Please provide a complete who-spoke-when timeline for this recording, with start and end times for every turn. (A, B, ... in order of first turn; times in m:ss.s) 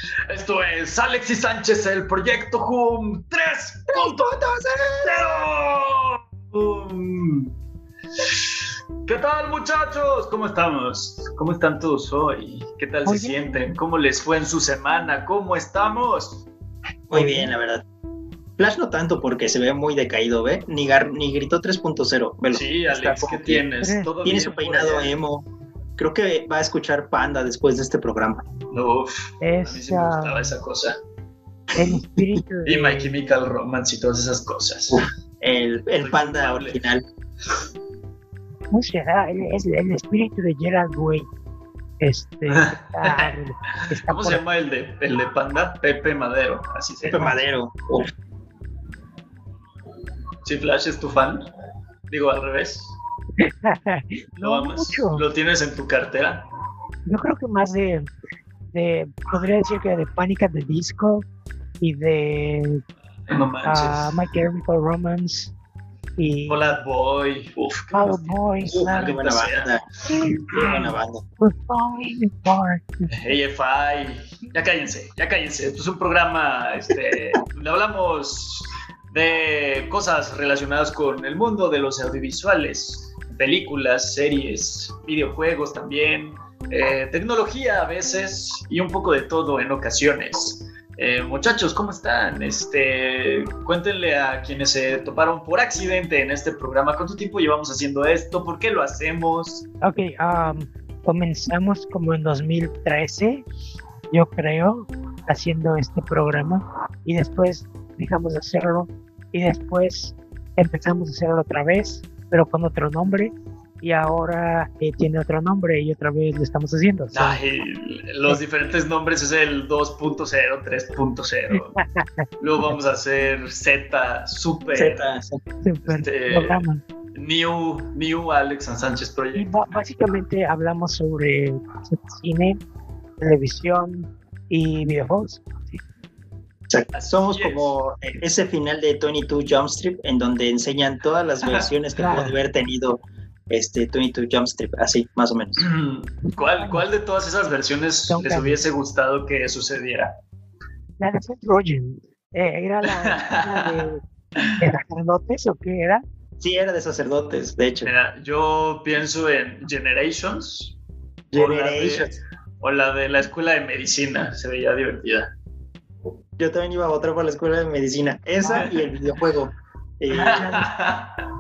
0:00.3-0:04.2 A
0:03.9-0:05.5 B
0:05.0-0:07.5 A
0:08.2-0:08.5 A
0:09.1-0:16.5 A
0:13.0-0:13.4 C
0:17.1-0:17.8 B
0:17.1-0:17.5 C
0:18.6-0:23.6 B
0:22.5-0:25.1 A
0:23.8-0:24.1 C
0:24.2-0:25.5 B
0:26.0-0:28.4 B
0:28.7-0:31.0 A
0:29.4-0:30.6 C
0:31.7-0:32.4 B
0:31.8-0:33.2 C
0:32.7-0:35.0 A
0:34.9-0:37.0 B
0:36.0-0:36.8 A
0:38.7-0:41.3 C
0:42.0-0:44.4 C
0:42.5-0:47.4 A
0:47.0-0:48.1 B
0:47.1-0:47.4 C
0:50.4-0:51.5 A
0:52.1-0:53.0 A
0:53.4-0:55.2 C
0:54.4-0:56.4 A
0:57.1-0:58.1 C
0:58.7-1:01.3 C
1:01.8-1:02.8 C
1:03.3-1:04.2 A
1:03.6-1:05.5 C
1:06.2-1:06.6 C
1:06.5-1:09.7 A
1:07.9-1:09.2 C
1:08.7-1:09.9 B
1:10.1-1:13.1 C
1:10.5-1:11.2 B
1:13.1-1:39.7 A
1:39.8-1:43.5 C
1:44.1-1:57.4 C
1:57.1-2:01.7 A
2:01.5-2:02.8 C
2:02.4-2:05.0 A
2:04.8-2:05.4 B
2:05.6-2:06.8 C
2:05.9-2:09.6 A
2:09.4-2:12.6 C
2:13.2-2:15.8 C
2:16.7-2:25.7 B
2:16.9-2:17.8 A
2:21.4-2:21.7 A
2:22.0-2:22.4 C
2:25.6-2:30.1 A
2:26.4-2:26.9 C
2:28.1-2:28.6 C
2:31.0-2:34.0 C
2:32.8-2:33.8 A
2:34.4-2:34.6 A
2:34.6-2:36.0 C
2:36.4-2:37.9 B
2:37.8-2:40.8 A
2:41.3-2:42.2 B
2:41.3-2:45.3 A
2:46.4-2:50.7 B
2:48.4-2:48.7 C
2:48.5-2:48.9 A
2:50.1-2:51.2 A